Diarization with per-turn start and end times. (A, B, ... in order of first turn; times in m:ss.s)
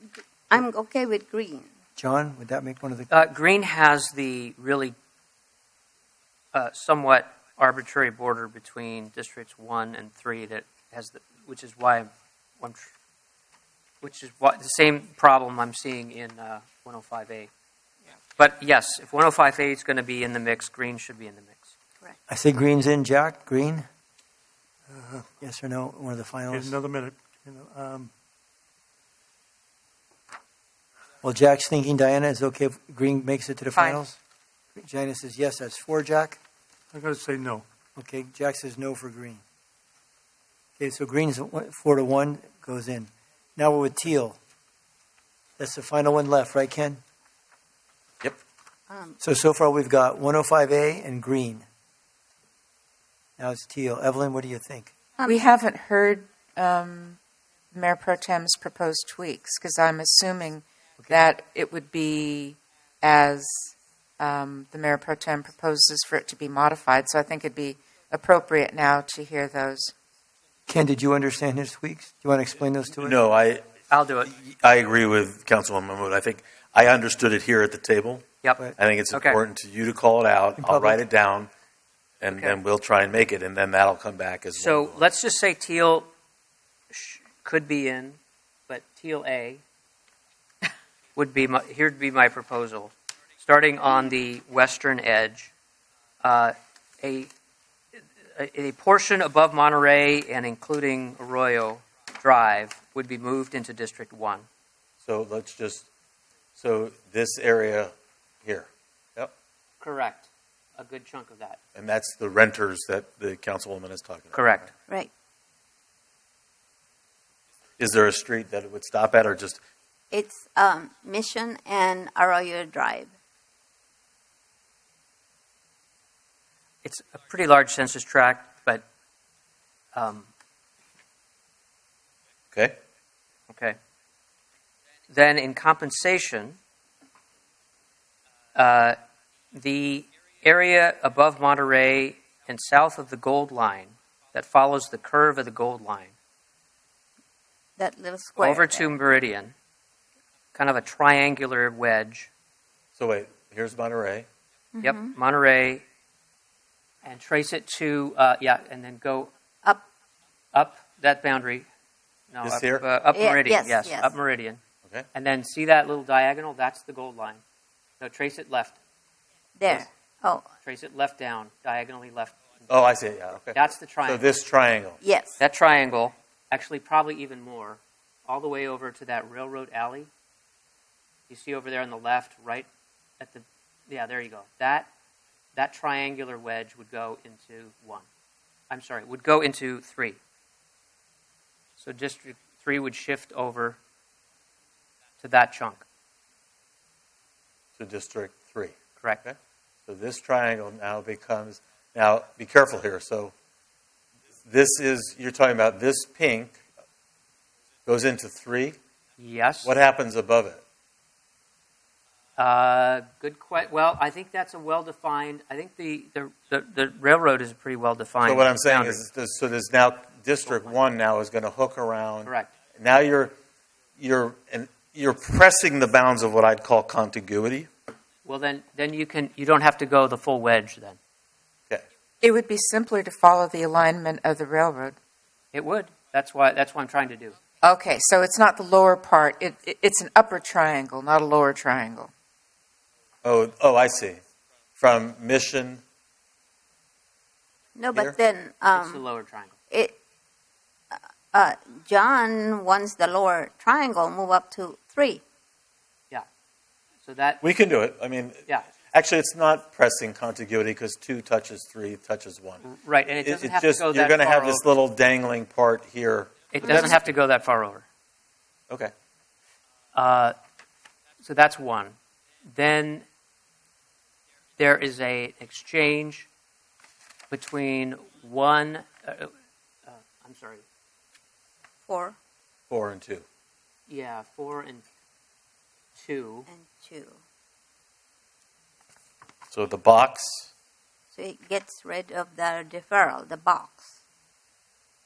0:00.5-0:01.7 A
0:02.0-0:03.1 B
0:03.1-0:04.9 C
0:06.5-0:12.9 C
0:14.0-0:17.5 C
0:18.4-0:21.7 C
0:22.3-0:23.9 B
0:24.9-0:25.2 D
0:25.3-0:26.8 B
0:26.5-0:28.1 D
0:31.2-0:34.2 B
0:33.8-0:34.0 E
0:34.8-0:36.4 B
0:36.9-0:37.6 D
0:38.0-0:39.4 B
0:40.8-0:44.4 B
0:45.6-0:47.0 B
0:48.9-0:49.2 A
0:49.2-0:51.6 B
0:53.4-0:54.9 B
0:55.2-0:55.4 A
0:55.2-0:57.2 E
0:57.7-1:09.9 E
1:10.7-1:13.2 B
1:13.0-1:13.7 F
1:13.9-1:14.3 C
1:14.3-1:18.3 F
1:18.8-1:21.5 F
1:19.1-1:19.4 C
1:20.6-1:21.0 B
1:22.2-1:25.0 F
1:22.3-1:22.6 C
1:24.6-1:26.1 C
1:26.9-1:29.6 C
1:31.2-1:35.5 C
1:36.2-1:37.3 C
1:38.4-1:44.5 C
1:45.0-1:45.9 F
1:46.6-1:47.9 F
1:48.4-1:49.3 F
1:49.8-1:51.6 C
1:51.8-1:54.7 F
1:54.3-1:54.7 C
1:57.8-1:59.6 F
2:00.1-2:03.1 A
2:06.8-2:08.9 C
2:10.0-2:10.3 C
2:13.5-2:13.8 C
2:15.1-2:16.6 C
2:18.6-2:19.0 C
2:19.5-2:26.1 C
2:27.8-2:28.9 A
2:28.4-2:29.5 C
2:30.5-2:32.3 C
2:33.0-2:34.3 F
2:34.7-2:35.1 A
2:34.8-2:35.8 C
2:37.0-2:39.3 C
2:40.5-2:41.7 C
2:42.3-2:44.6 C
2:42.4-2:42.8 F
2:43.1-2:44.1 A
2:45.2-2:47.4 C
2:48.0-2:48.8 C
2:49.6-2:50.5 A
2:50.6-2:52.6 C
2:52.7-2:55.0 F
2:53.5-2:54.3 C
2:55.0-2:55.4 A
2:55.4-3:00.1 C
3:01.3-3:02.7 C
3:03.2-3:04.9 C
3:05.5-3:08.1 C
3:08.7-3:10.2 C
3:11.8-3:13.8 C
3:15.2-3:15.8 C
3:17.8-3:23.3 F
3:24.4-3:26.6 F
3:27.9-3:28.8 F
3:29.2-3:29.7 C
3:29.6-3:30.6 F
3:32.4-3:39.0 C
3:38.2-3:43.3 F
3:40.5-3:40.8 C
3:42.2-3:42.5 C
3:44.0-3:47.7 F
3:48.2-3:51.0 C
3:52.2-3:55.0 E
3:55.5-3:57.4 C
3:57.6-4:02.1 E
4:03.2-4:04.2 F
4:04.8-4:05.8 F
4:07.8-4:09.0 A
4:08.7-4:09.6 C
4:09.7-4:10.0 A
4:10.9-4:15.2 A
4:17.0-4:17.4 C
4:17.4-4:22.6 F
4:22.6-4:24.7 C
4:23.2-4:27.1 F
4:26.5-4:27.8 C
4:30.0-4:30.4 C
4:31.2-4:32.0 C
4:32.5-4:33.0 C
4:34.6-4:36.3 C
4:37.3-4:39.3 C
4:39.9-4:40.6 C
4:41.9-4:42.2 A
4:42.7-4:43.2 F
4:43.9-4:44.8 C
4:46.0-4:46.5 C
4:46.5-4:47.2 A
4:49.5-4:50.5 F
4:51.2-4:54.0 A